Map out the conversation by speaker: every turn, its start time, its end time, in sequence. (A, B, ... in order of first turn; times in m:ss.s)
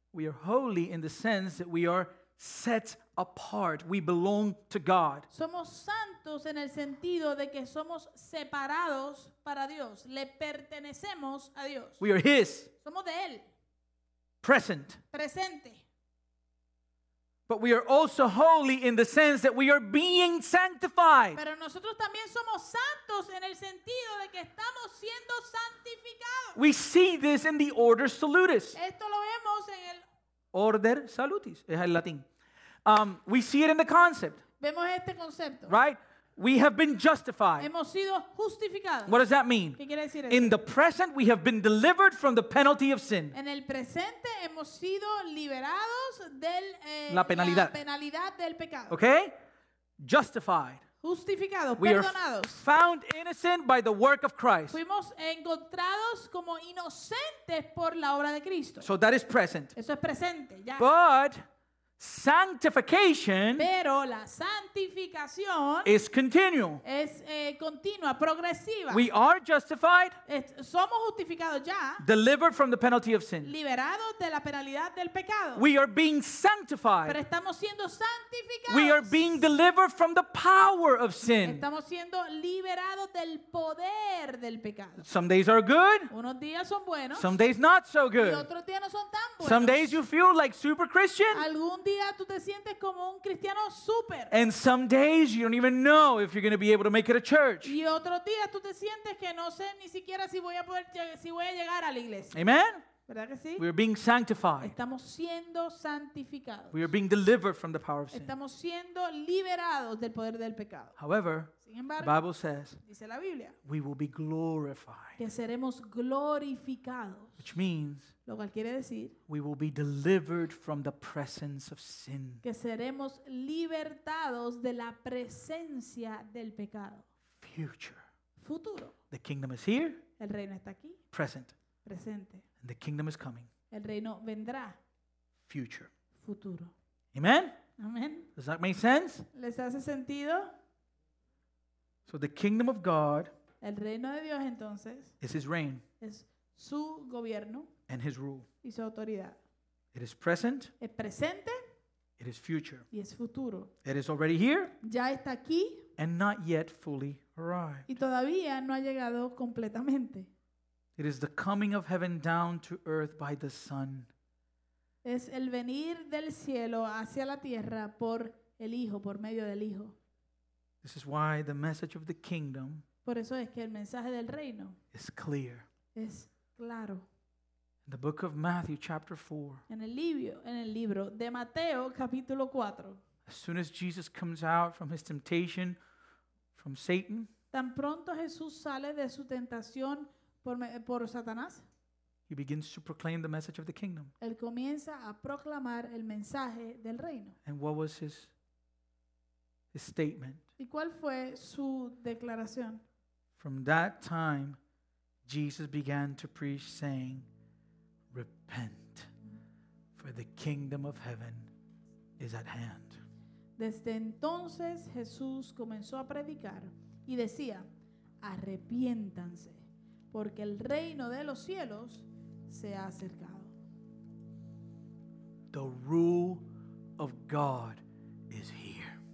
0:00.1-0:05.3 A
0:05.3-0:12.0 B
0:12.0-0:12.7 A
0:12.8-0:13.5 B
0:14.4-0:15.0 A
0:15.1-0:15.8 B
0:17.5-0:21.4 A
0:21.4-0:26.6 B
0:26.6-0:28.8 A
0:28.7-0:30.0 B
0:30.5-0:32.2 A
0:32.8-0:34.4 A
0:34.6-0:35.7 B
0:35.7-0:37.7 A
0:37.6-0:39.2 B
0:39.1-0:43.3 A
0:39.8-0:40.6 B
0:43.3-0:49.0 B
0:47.1-0:47.8 A
0:48.9-0:49.3 A
0:50.0-0:50.8 A
0:51.0-0:52.6 B
0:51.8-0:54.8 A
0:54.7-0:58.9 B
0:58.8-0:59.7 A
0:59.7-1:00.9 B
1:00.8-1:01.4 A
1:02.0-1:03.7 A
1:03.5-1:05.9 B
1:05.8-1:06.8 A
1:06.8-1:09.0 B
1:08.9-1:10.2 A
1:10.2-1:12.0 B
1:12.0-1:13.5 A
1:13.4-1:15.6 B
1:15.6-1:17.2 A
1:17.0-1:19.4 B
1:18.7-1:21.6 A
1:21.4-1:25.0 B
1:25.0-1:26.1 A
1:26.1-1:27.3 B
1:27.1-1:28.4 A
1:28.2-1:30.0 B
1:29.4-1:31.4 A
1:31.3-1:34.3 B
1:34.3-1:37.8 A
1:37.6-1:42.4 B
1:42.3-1:42.9 A
1:43.0-1:43.6 B
1:43.6-1:44.8 A
1:44.6-1:46.9 B
1:46.7-1:48.3 A
1:48.1-1:50.9 B
1:51.0-1:52.8 A
1:51.6-1:52.1 B
1:52.8-1:53.6 B
1:53.6-1:55.2 A
1:55.2-1:57.4 B
1:57.4-1:58.1 A
1:58.2-1:59.2 B
1:59.3-2:02.4 A
2:02.4-2:07.0 B
2:07.4-2:08.0 A
2:08.4-2:08.9 B
2:09.1-2:10.0 A
2:10.2-2:11.0 B
2:11.1-2:11.5 A
2:11.8-2:12.4 B
2:12.6-2:13.5 A
2:13.7-2:14.8 B
2:15.5-2:15.9 A
2:16.2-2:16.7 B
2:17.1-2:17.6 A
2:17.8-2:18.3 B
2:18.4-2:19.3 A
2:19.3-2:20.5 B
2:22.1-2:23.3 A
2:23.6-2:25.1 B
2:25.2-2:25.8 A
2:26.0-2:27.7 B
2:27.9-2:28.5 A
2:28.6-2:29.4 B
2:29.9-2:30.7 A
2:30.8-2:31.6 B
2:32.2-2:32.8 A
2:32.9-2:33.7 B
2:33.8-2:34.7 A
2:34.8-2:35.9 B
2:36.0-2:37.9 A
2:37.9-2:40.3 B
2:41.0-2:44.1 A
2:45.0-2:50.0 B
2:50.8-2:52.8 A
2:53.0-2:54.8 B
2:54.9-2:55.7 A
2:55.9-2:57.1 B
2:57.8-2:59.6 A
2:59.7-3:03.0 B
3:03.2-3:05.8 A
3:06.5-3:07.3 A
3:07.5-3:11.6 B
3:12.3-3:14.1 A
3:14.2-3:17.4 B
3:17.4-3:18.3 A
3:19.7-3:20.4 A
3:20.6-3:22.8 B
3:23.4-3:24.6 A
3:25.2-3:27.2 A
3:28.1-3:29.1 A
3:30.0-3:31.5 A
3:32.2-3:33.0 A
3:33.6-3:37.7 B
3:38.2-3:43.5 B
3:45.5-3:46.4 A
3:47.0-3:49.0 A